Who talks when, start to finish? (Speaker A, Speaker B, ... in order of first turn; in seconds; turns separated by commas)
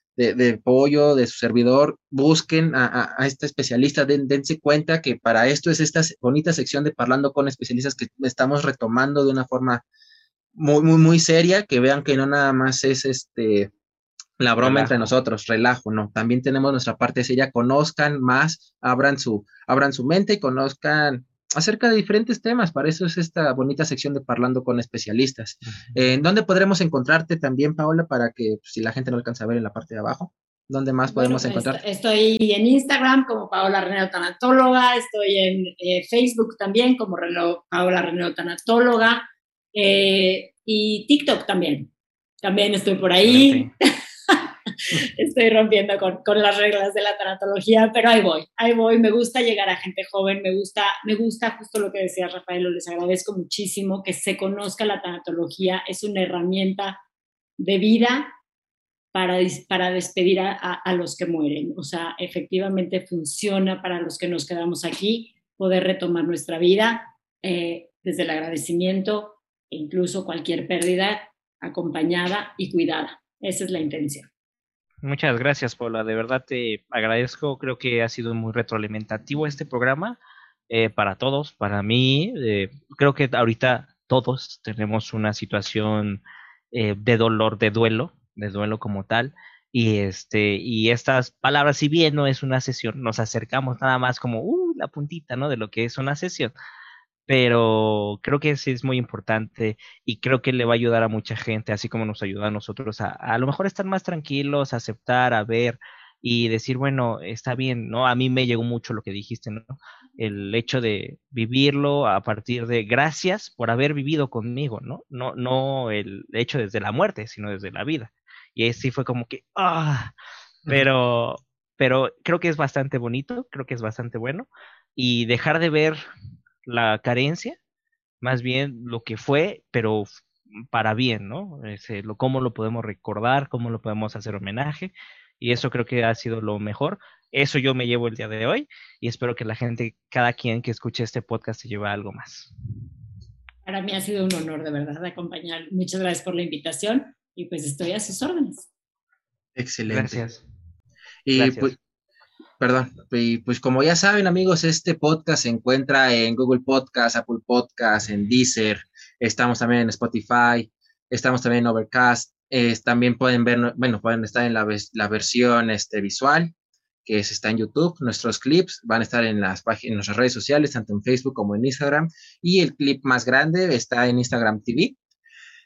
Speaker A: 0.1-9.8, Speaker A: 10.5-13.7, Speaker A: 14.4-31.8, Speaker B: 14.6-15.1, Speaker C: 31.1-41.9, Speaker C: 42.4-43.7, Speaker B: 43.2-43.7, Speaker C: 44.3-57.0, Speaker C: 57.6-58.3, Speaker C: 59.1-74.3, Speaker B: 75.0-80.2, Speaker B: 80.7-96.5, Speaker B: 97.3-120.1, Speaker B: 120.7-126.0, Speaker B: 126.7-127.6, Speaker B: 128.2-130.1, Speaker B: 130.7-142.5, Speaker C: 143.7-148.7, Speaker A: 149.6-150.2, Speaker B: 149.9-150.4, Speaker A: 151.2-151.8, Speaker B: 151.3-151.7, Speaker A: 152.6-166.5, Speaker A: 167.0-174.9